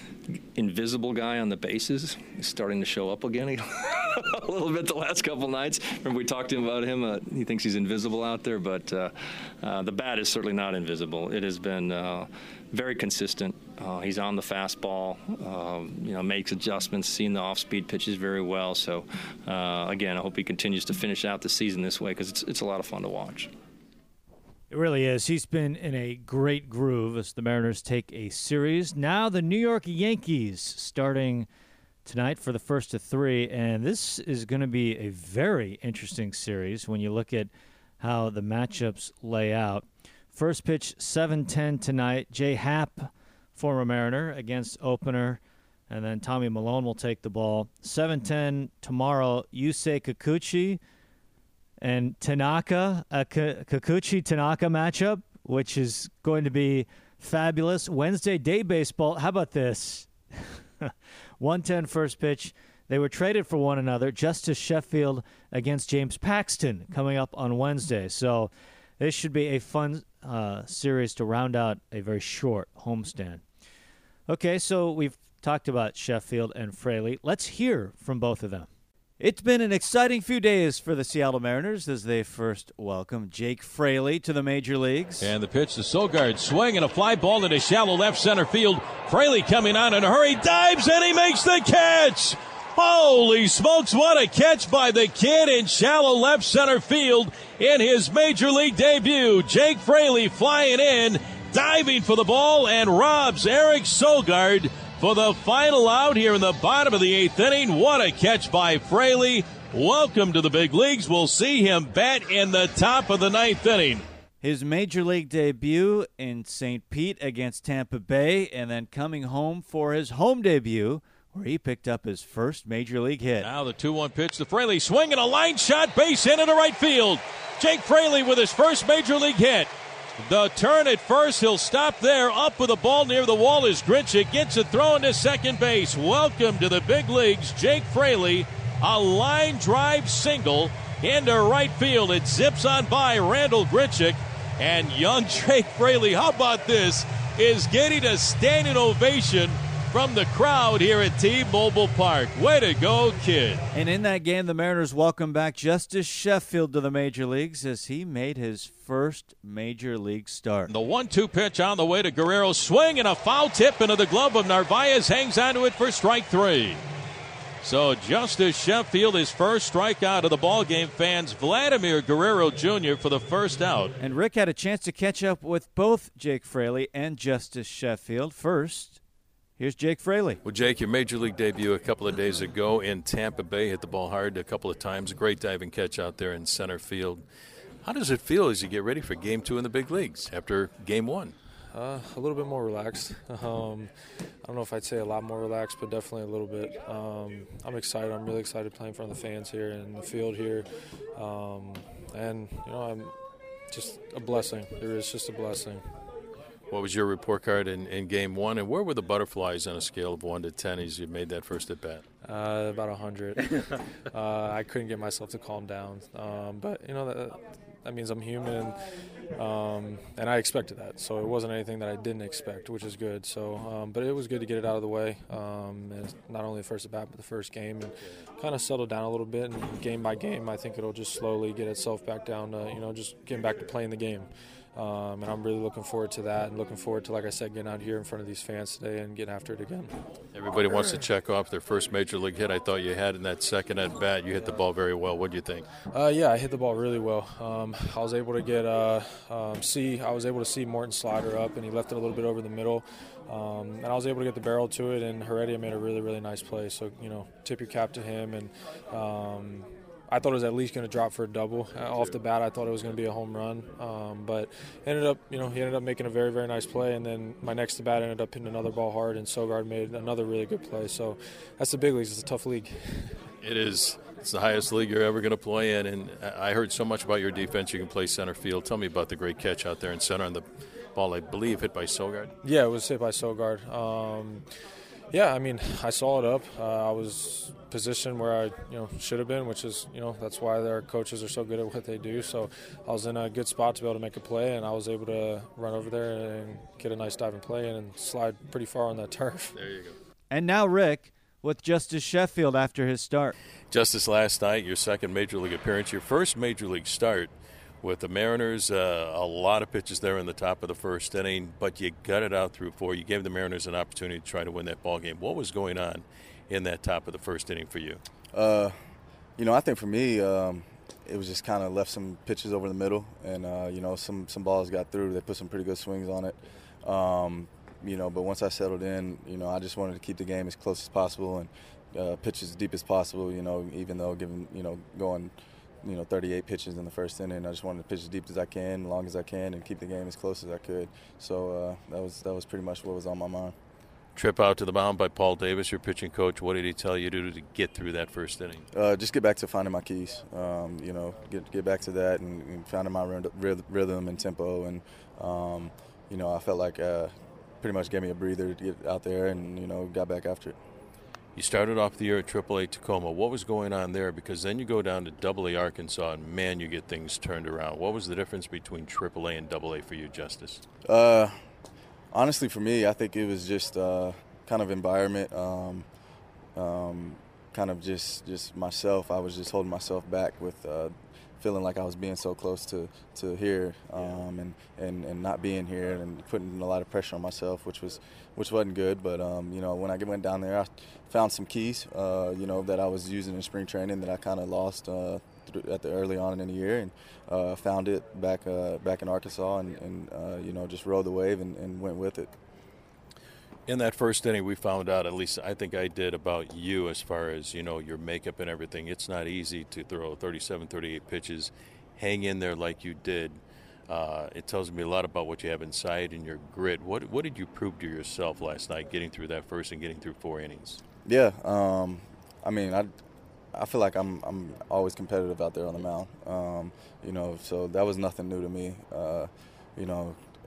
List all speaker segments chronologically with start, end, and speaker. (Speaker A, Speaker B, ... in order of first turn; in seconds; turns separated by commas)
Speaker A: 0.3-23.5, Speaker B: 24.7-31.4, Speaker B: 32.1-37.5, Speaker B: 38.0-39.8, Speaker B: 40.4-43.0, Speaker B: 43.6-45.4, Speaker B: 45.9-50.8, Speaker B: 51.8-60.1, Speaker B: 61.4-68.5, Speaker B: 69.0-73.4, Speaker B: 74.3-78.7, Speaker B: 79.2-85.3, Speaker C: 85.2-114.0, Speaker B: 114.4-123.5, Speaker C: 123.5-153.6, Speaker B: 153.7-160.7, Speaker C: 160.7-166.8, Speaker C: 167.6-173.9, Speaker B: 174.0-179.0, Speaker B: 179.6-180.4, Speaker D: 180.4-187.2, Speaker D: 187.8-191.3, Speaker E: 191.7-193.9, Speaker E: 194.4-203.1, Speaker E: 203.7-205.8, Speaker D: 206.7-212.0, Speaker E: 212.2-213.4, Speaker E: 214.1-218.8, Speaker E: 219.4-239.9, Speaker D: 240.3-245.7, Speaker E: 245.9-273.2, Speaker D: 273.4-282.3, Speaker E: 282.4-284.5, Speaker E: 285.1-299.6, Speaker D: 299.6-300.0, Speaker B: 300.3-303.3, Speaker D: 303.7-318.0, Speaker F: 318.3-318.8, Speaker F: 319.4-343.6, Speaker D: 344.1-348.7, Speaker F: 348.7-360.6, Speaker D: 361.4-370.6, Speaker F: 370.9-371.4, Speaker F: 372.1-375.9, Speaker F: 376.6-402.3, Speaker D: 403.7-420.8, Speaker F: 421.1-422.9, Speaker F: 423.5-430.2